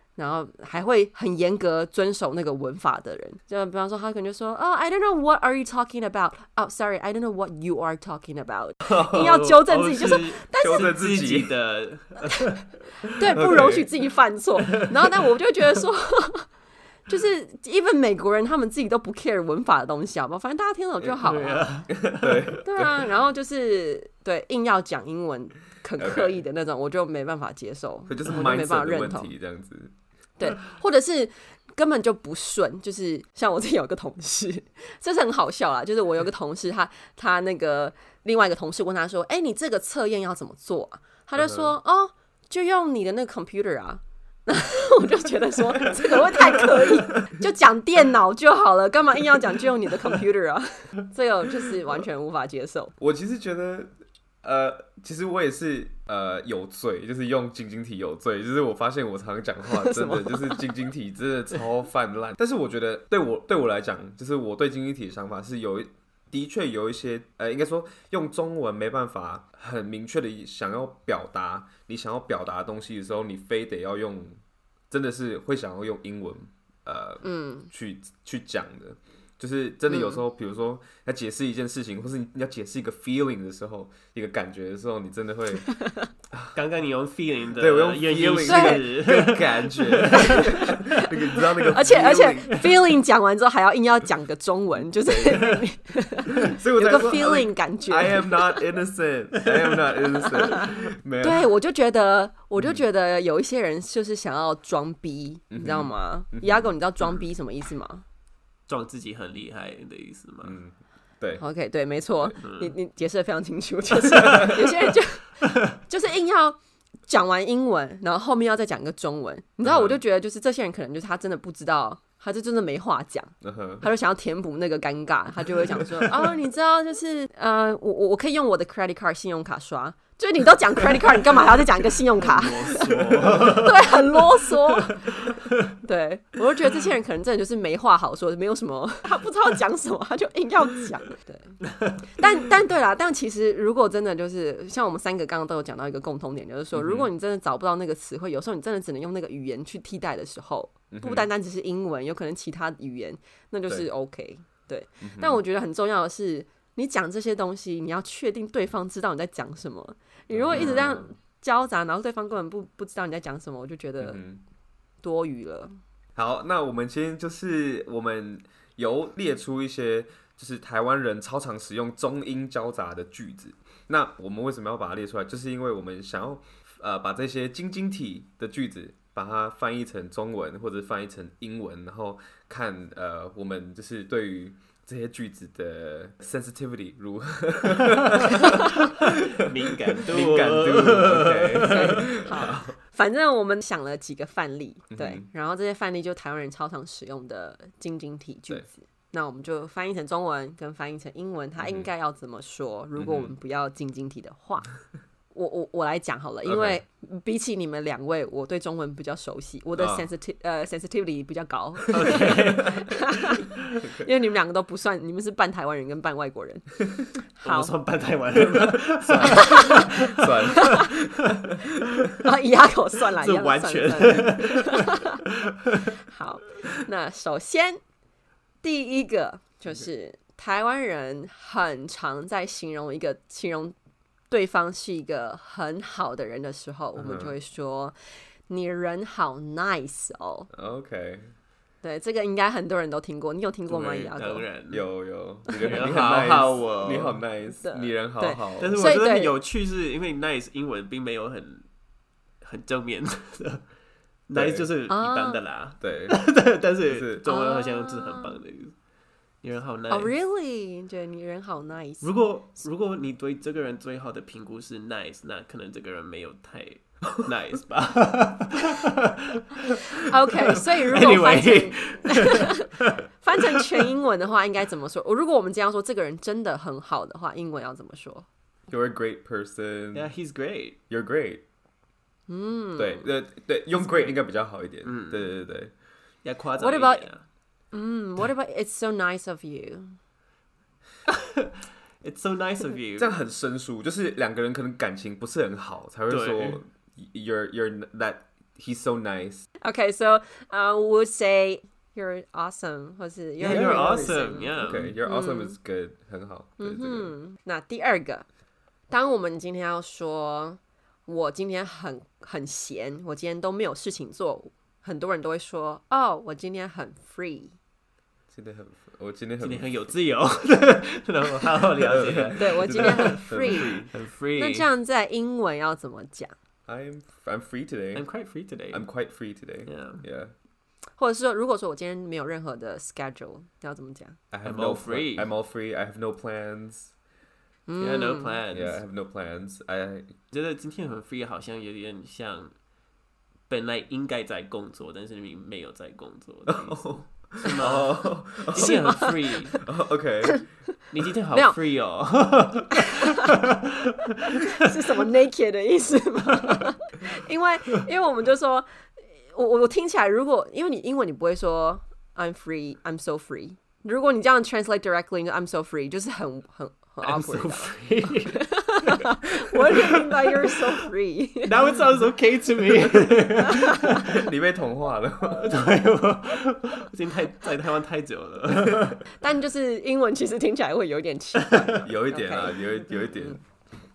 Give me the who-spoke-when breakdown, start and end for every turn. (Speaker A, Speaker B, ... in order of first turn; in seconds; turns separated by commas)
Speaker A: 0.2-11.0, Speaker B: 9.0-12.6, Speaker C: 10.6-11.5, Speaker A: 13.1-16.5, Speaker C: 13.3-13.9, Speaker A: 17.1-21.8, Speaker B: 21.2-22.6, Speaker C: 22.0-23.0, Speaker A: 22.6-29.3, Speaker C: 26.0-26.4, Speaker C: 28.1-29.9, Speaker A: 30.4-52.9, Speaker C: 41.4-41.7, Speaker C: 53.0-53.9, Speaker C: 54.4-74.4, Speaker C: 74.9-85.7, Speaker A: 77.2-77.7, Speaker A: 79.9-80.2, Speaker B: 86.5-90.8, Speaker C: 87.6-92.6, Speaker A: 88.5-88.9, Speaker A: 90.3-90.7, Speaker A: 91.7-98.6, Speaker B: 92.0-92.6, Speaker C: 95.0-95.5, Speaker C: 96.3-101.5, Speaker A: 100.4-100.7, Speaker A: 101.2-108.0, Speaker C: 105.5-106.7, Speaker B: 108.7-110.6, Speaker C: 110.4-111.4, Speaker A: 111.4-164.2, Speaker B: 112.4-112.8, Speaker C: 119.7-120.0, Speaker C: 123.4-123.9, Speaker B: 132.2-134.0, Speaker C: 146.8-147.1, Speaker C: 150.9-151.3, Speaker C: 155.0-155.4, Speaker C: 160.3-161.1, Speaker C: 164.0-164.4, Speaker A: 165.0-165.7, Speaker C: 166.2-189.1, Speaker B: 188.8-192.2, Speaker C: 190.0-192.7, Speaker A: 191.7-204.7, Speaker C: 194.9-195.3, Speaker C: 201.6-201.9, Speaker C: 203.0-203.3, Speaker A: 205.3-216.8, Speaker C: 206.4-206.8, Speaker C: 209.8-210.1, Speaker B: 211.9-212.8, Speaker C: 212.0-212.3, Speaker C: 213.8-214.1, Speaker A: 217.3-217.7, Speaker B: 217.4-220.8, Speaker C: 218.6-222.1, Speaker A: 219.3-220.9, Speaker A: 222.2-225.2, Speaker B: 223.2-225.0, Speaker A: 226.1-227.8, Speaker A: 228.6-233.8, Speaker A: 234.3-237.9, Speaker C: 237.0-237.3, Speaker A: 238.5-240.5, Speaker C: 240.5-241.3, Speaker A: 241.8-244.5, Speaker B: 243.8-244.8, Speaker C: 244.7-248.8, Speaker B: 245.6-247.2, Speaker A: 247.6-249.4, Speaker B: 248.6-251.7, Speaker B: 252.4-253.6, Speaker B: 254.3-258.8, Speaker C: 254.3-254.7, Speaker A: 254.9-255.4, Speaker C: 255.8-256.2, Speaker C: 256.9-257.2, Speaker A: 257.3-258.4, Speaker B: 259.4-260.1, Speaker A: 259.9-262.1, Speaker B: 262.0-270.0, Speaker A: 270.0-272.7, Speaker B: 270.6-272.9, Speaker A: 273.2-278.3, Speaker C: 278.7-280.1, Speaker B: 279.9-280.8, Speaker C: 280.9-281.4, Speaker A: 282.3-283.1, Speaker C: 282.8-285.7, Speaker B: 283.8-284.1, Speaker B: 284.8-285.3, Speaker B: 286.2-287.2, Speaker A: 286.6-287.1, Speaker A: 287.7-290.0, Speaker B: 291.1-291.5, Speaker B: 292.0-293.1, Speaker C: 293.0-299.5, Speaker B: 296.1-296.6, Speaker A: 299.6-305.6, Speaker B: 303.4-305.0, Speaker C: 303.4-307.1, Speaker A: 306.6-308.2, Speaker A: 308.9-317.6, Speaker C: 318.3-319.7, Speaker B: 319.4-324.7, Speaker C: 321.8-323.9, Speaker A: 322.4-326.3, Speaker C: 326.7-328.1, Speaker B: 327.9-328.9, Speaker C: 328.7-330.3, Speaker B: 329.7-330.0, Speaker A: 331.0-334.2, Speaker C: 334.3-336.9, Speaker B: 334.4-335.3, Speaker A: 337.7-338.4, Speaker B: 337.8-338.8, Speaker C: 338.5-340.2, Speaker B: 340.3-342.5, Speaker B: 343.5-349.6, Speaker C: 346.5-349.1, Speaker A: 348.6-349.2, Speaker C: 349.6-350.5, Speaker B: 350.9-354.4, Speaker A: 354.4-358.7, Speaker A: 359.3-367.8, Speaker B: 367.0-369.0, Speaker A: 368.3-371.5, Speaker B: 369.6-370.3, Speaker B: 371.4-374.2, Speaker C: 373.9-375.6, Speaker B: 375.4-379.0, Speaker A: 379.2-382.6, Speaker B: 381.5-381.8, Speaker C: 381.8-383.4